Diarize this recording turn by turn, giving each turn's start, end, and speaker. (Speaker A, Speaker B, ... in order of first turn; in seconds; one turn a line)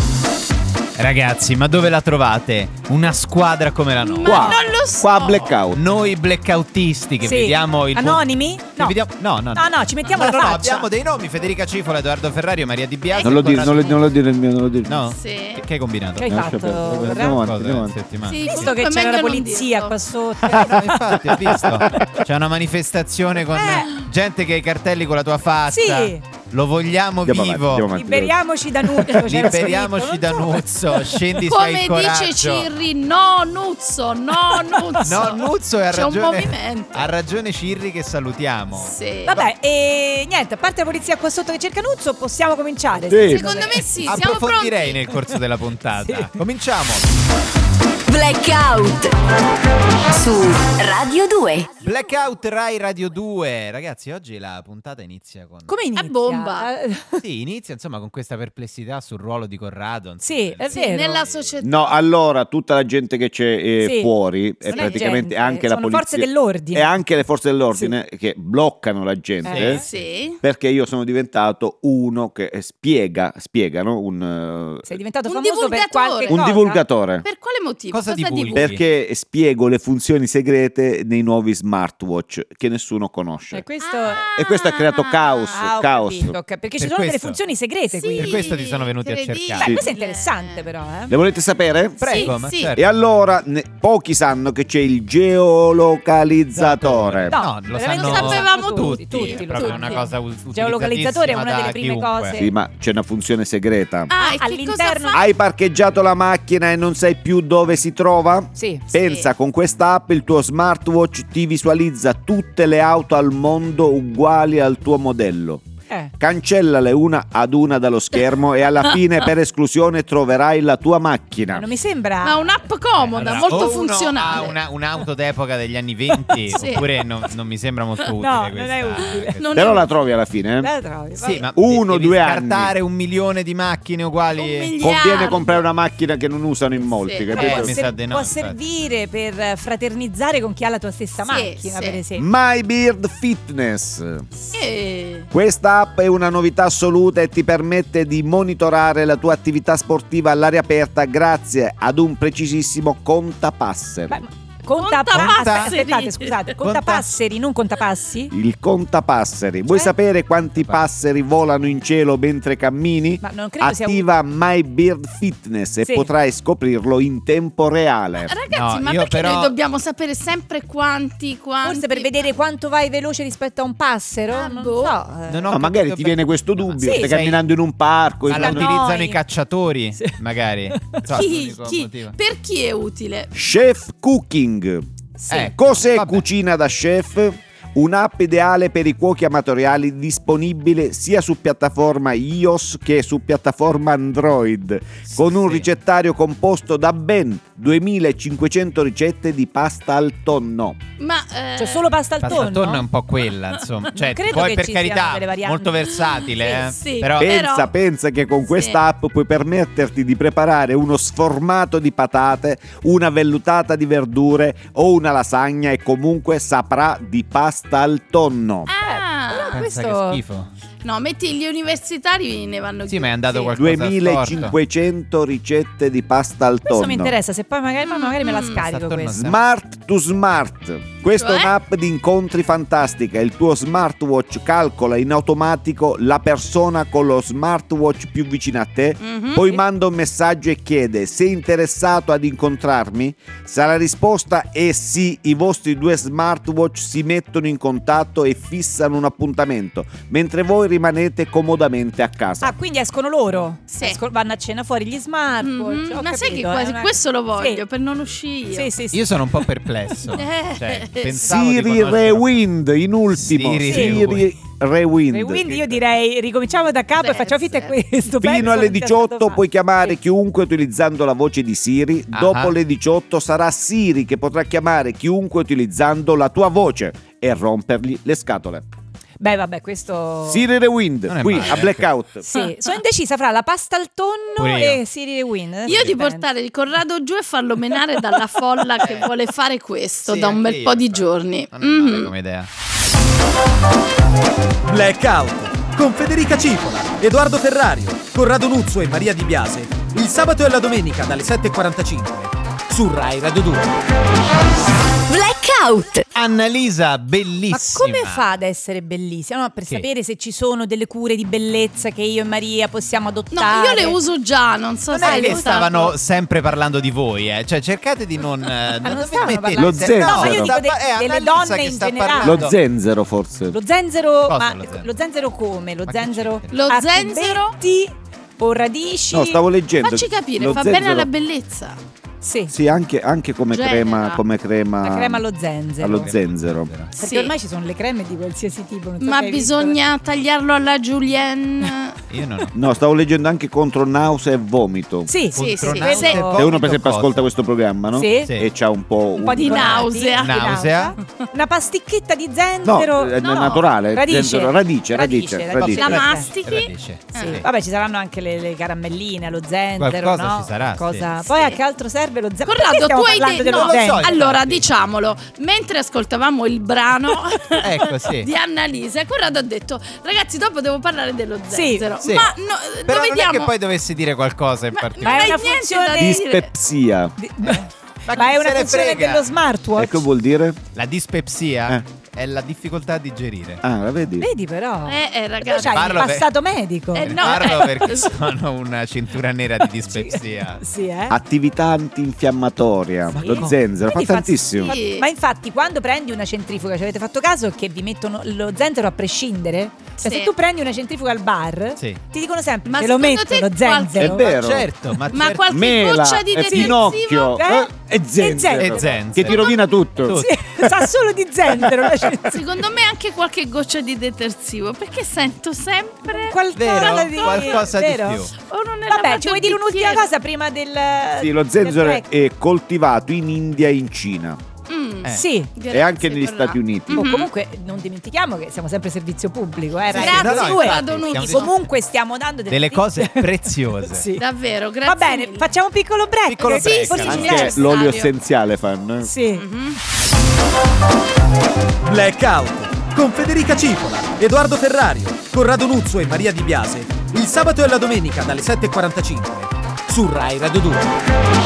Speaker A: 1.0-4.7
Speaker B: 4.0-5.6
Speaker C: 4.2-4.8
Speaker D: 4.2-5.8
Speaker A: 5.7-14.1
Speaker C: 7.2-9.0
Speaker C: 9.5-10.9
Speaker B: 13.1-13.9
Speaker D: 13.2-15.0
Speaker A: 14.9-16.3
Speaker B: 15.1-15.7
Speaker C: 16.2-17.4
Speaker D: 16.2-18.0
Speaker A: 17.2-18.8
Speaker B: 18.2-20.0
Speaker C: 18.4-21.0
Speaker D: 20.4-22.0
Speaker A: 20.5-27.9
Speaker C: 21.9-22.2
Speaker C: 23.5-24.0
Speaker C: 25.7-26.2
Speaker D: 27.2-28.4
Speaker C: 27.9-31.4
Speaker A: 29.1-32.7
Speaker B: 31.5-37.1
Speaker C: 34.5-35.4
Speaker A: 35.0-39.5
Speaker B: 38.7-39.4
Speaker C: 39.3-44.2
Speaker D: 43.1-43.6
Speaker B: 43.2-45.0
Speaker A: 44.0-47.0
Speaker C: 45.1-45.4
Speaker C: 46.0-46.4
Speaker E: 48.1-49.1
Speaker E: 50.1-51.7
Speaker A: 51.8-55.8
Speaker C: 55.7-57.2
Speaker B: 55.9-56.7
Speaker A: 57.2-61.5
Speaker C: 60.2-61.2
Speaker B: 60.7-62.0
Speaker D: 61.6-69.8
Speaker C: 63.8-64.1
Speaker C: 64.7-66.9
Speaker C: 69.5-69.9
Speaker A: 69.5-70.1
Speaker B: 69.8-70.4
Speaker D: 70.4-75.0
Speaker C: 74.8-76.8
Speaker B: 75.3-76.5
Speaker D: 76.3-77.2
Speaker B: 77.2-78.7
Speaker A: 77.9-78.8
Speaker D: 78.5-83.7
Speaker C: 83.5-84.3
Speaker B: 83.8-85.6
Speaker D: 84.3-86.4
Speaker C: 85.5-88.5
Speaker A: 86.8-87.4
Speaker B: 87.9-90.7
Speaker A: 88.0-89.8
Speaker C: 89.6-91.1
Speaker D: 91.1-97.4
Speaker B: 92.0-92.7
Speaker A: 92.0-92.8
Speaker A: 96.5-102.4
Speaker C: 97.3-102.5
Speaker B: 97.9-100.0
Speaker D: 102.3-104.1
Speaker B: 104.1-105.3
Speaker C: 104.2-105.2
Speaker D: 105.1-115.6
Speaker C: 108.5-108.9
Speaker B: 108.9-109.3
Speaker D: 116.2-121.7
Speaker C: 121.5-122.7
Speaker B: 122.2-124.6
Speaker A: 123.0-129.7
Speaker C: 126.2-126.8
Speaker B: 126.5-126.9
Speaker C: 128.2-129.4
Speaker B: 129.4-129.9
Speaker D: 129.5-130.7
Speaker C: 130.6-131.5
Speaker A: 131.2-134.7
Speaker D: 131.6-132.7
Speaker B: 134.4-135.6
Speaker D: 134.8-137.8
Speaker B: 137.0-137.7
Speaker C: 137.3-142.3
Speaker A: 137.3-138.6
Speaker B: 141.2-142.0
Speaker D: 142.1-144.3
Speaker B: 144.5-145.3
Speaker D: 145.3-154.2
Speaker C: 154.1-158.3
Speaker B: 154.8-156.6
Speaker A: 155.1-155.8
Speaker A: 156.6-157.2
Speaker D: 158.3-168.3
Speaker C: 163.2-164.1
Speaker C: 165.8-166.1
Speaker B: 168.2-172.2
Speaker A: 168.5-169.5
Speaker C: 171.6-175.4
Speaker B: 174.3-175.0
Speaker A: 175.3-177.4
Speaker D: 175.5-178.7
Speaker C: 176.8-177.1
Speaker A: 178.3-182.2
Speaker C: 178.3-179.2
Speaker C: 180.7-181.1
Speaker B: 181.1-183.3
Speaker D: 183.3-200.8
Speaker C: 185.2-185.5
Speaker A: 185.3-186.2
Speaker A: 195.1-195.7
Speaker B: 201.0-201.9
Speaker C: 201.6-202.8
Speaker A: 202.2-207.4
Speaker C: 203.9-205.8
Speaker B: 206.2-207.7
Speaker D: 207.2-218.7
Speaker B: 208.5-208.8
Speaker B: 218.7-219.7
Speaker C: 218.8-220.2
Speaker A: 219.5-220.5
Speaker B: 220.8-223.7
Speaker A: 222.9-224.5
Speaker D: 223.6-227.2
Speaker C: 226.7-229.2
Speaker B: 227.8-228.6
Speaker A: 228.5-229.4
Speaker D: 229.1-252.6
Speaker B: 231.1-231.5
Speaker B: 239.0-239.6
Speaker C: 252.4-257.6
Speaker B: 253.7-254.0
Speaker B: 255.4-258.8
Speaker C: 258.5-259.9
Speaker A: 258.9-262.3
Speaker B: 260.1-261.3
Speaker D: 261.2-265.8
Speaker A: 263.2-264.3
Speaker C: 263.6-264.1
Speaker C: 265.1-270.0
Speaker B: 267.0-267.8
Speaker D: 268.1-278.7
Speaker A: 272.1-272.5
Speaker C: 279.2-280.5
Speaker D: 280.3-282.3
Speaker A: 281.1-281.9
Speaker B: 281.4-281.6
Speaker C: 282.2-286.3
Speaker A: 284.4-284.8
Speaker A: 285.7-286.0
Speaker B: 285.7-292.1
Speaker A: 288.8-289.1
Speaker A: 290.1-292.5
Speaker F: 294.7-303.7
Speaker E: 305.1-306.1
Speaker A: 306.1-308.3
Speaker C: 307.5-314.0
Speaker B: 313.3-315.9
Speaker A: 314.9-322.6
Speaker C: 315.0-315.9
Speaker C: 318.8-322.5
Speaker D: 319.6-320.6
Speaker D: 322.2-323.6
Speaker C: 323.5-329.4
Speaker A: 324.3-325.0
Speaker A: 325.9-326.6
Speaker B: 326.5-327.6
Speaker D: 329.1-331.1
Speaker B: 329.8-331.8
Speaker C: 332.2-332.5
Speaker D: 332.5-335.2
Speaker B: 333.5-334.2
Speaker C: 334.8-336.1
Speaker D: 335.8-336.7
Speaker A: 335.8-336.9
Speaker B: 336.9-337.3
Speaker C: 337.0-339.8
Speaker B: 339.0-342.0
Speaker A: 342.1-342.5
Speaker D: 342.5-345.2
Speaker C: 345.1-346.4
Speaker A: 345.3-347.3
Speaker B: 345.4-346.3
Speaker D: 346.3-349.9
Speaker C: 347.9-348.3
Speaker C: 349.2-356.3
Speaker B: 349.4-351.2
Speaker A: 349.6-351.0
Speaker D: 352.6-356.0
Speaker B: 353.2-353.6
Speaker B: 355.6-357.4
Speaker A: 355.8-357.5
Speaker C: 357.2-364.1
Speaker A: 359.8-361.1
Speaker B: 361.1-361.6
Speaker B: 362.4-373.6
Speaker A: 363.3-364.7
Speaker A: 367.6-368.3
Speaker C: 371.5-371.9
Speaker A: 372.0-372.4
Speaker A: 372.9-375.4
Speaker B: 374.8-376.5
Speaker C: 375.0-376.2
Speaker D: 375.9-377.2
Speaker C: 377.2-380.0
Speaker A: 377.4-379.3
Speaker D: 379.8-380.6
Speaker A: 380.7-383.6
Speaker D: 383.6-384.3
Speaker C: 384.2-387.7
Speaker B: 384.9-386.2
Speaker A: 385.6-386.4
Speaker B: 386.9-388.2
Speaker A: 387.0-390.6
Speaker C: 389.6-391.2
Speaker D: 391.1-394.8
Speaker C: 393.1-404.3
Speaker B: 394.6-395.1
Speaker B: 400.0-400.3
Speaker B: 402.7-404.4
Speaker D: 404.0-404.7
Speaker A: 404.2-405.5
Speaker B: 405.1-407.4
Speaker D: 405.4-410.8
Speaker C: 406.4-409.3
Speaker A: 408.6-410.4
Speaker C: 410.1-412.4
Speaker D: 411.5-412.4
Speaker B: 412.3-417.7
Speaker C: 416.1-418.3
Speaker A: 416.5-418.3
Speaker B: 418.4-420.1
Speaker C: 418.9-422.1
Speaker D: 421.2-424.4
Speaker B: 424.7-427.3
Speaker C: 425.1-425.5
Speaker D: 425.7-427.1
Speaker C: 426.9-434.3
Speaker B: 429.9-431.6
Speaker A: 429.9-431.6
Speaker A: 432.5-434.1
Speaker B: 434.2-435.5
Speaker C: 434.9-437.6
Speaker A: 436.4-437.4
Speaker B: 436.4-438.1
Speaker D: 436.7-439.1
Speaker C: 439.0-439.4
Speaker B: 439.4-439.8
Speaker F: 441.9-450.9